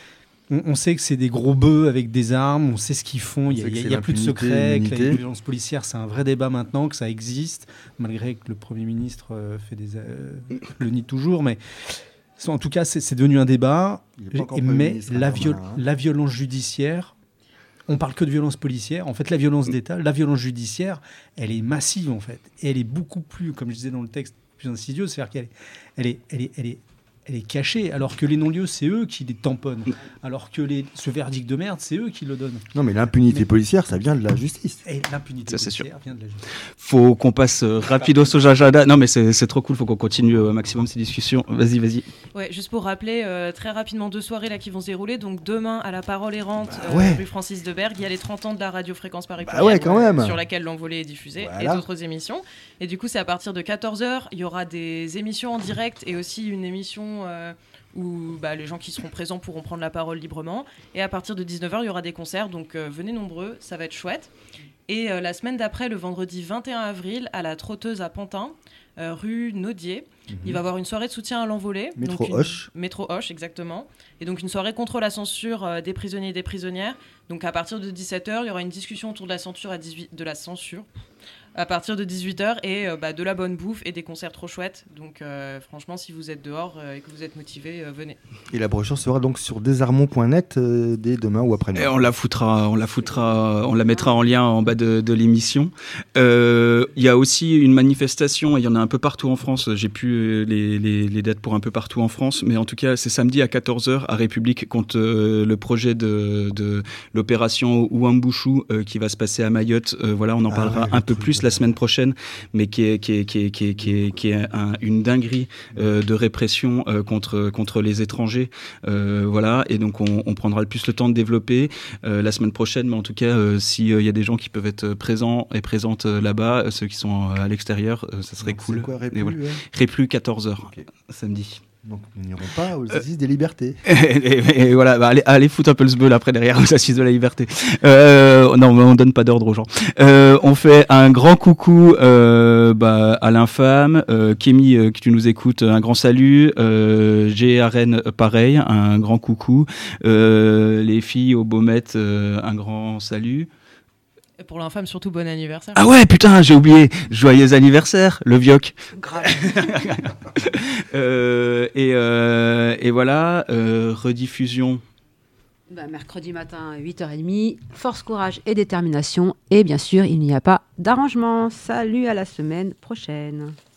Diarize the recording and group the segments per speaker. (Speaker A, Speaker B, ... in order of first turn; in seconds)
Speaker A: 0.5-17.1, 17.9-32.7, 34.8-36.4, 38.0-38.3
Speaker B: 3.5-5.2, 14.2-15.8, 32.7-34.8, 46.6-47.2, 49.4-50.4, 51.3-51.8, 70.3-70.6, 72.0-72.7, 88.5-92.0, 110.5-111.7, 128.3-129.6, 131.8-133.8
Speaker C: 35.5-35.8, 36.8-42.0, 91.7-131.6, 133.8-153.5, 155.7-164.8
Speaker D: 42.3-64.3, 64.9-80.9, 81.5-88.2, 154.4-155.8
Speaker E: 93.2-94.2, 158.9-160.0, 165.7-173.6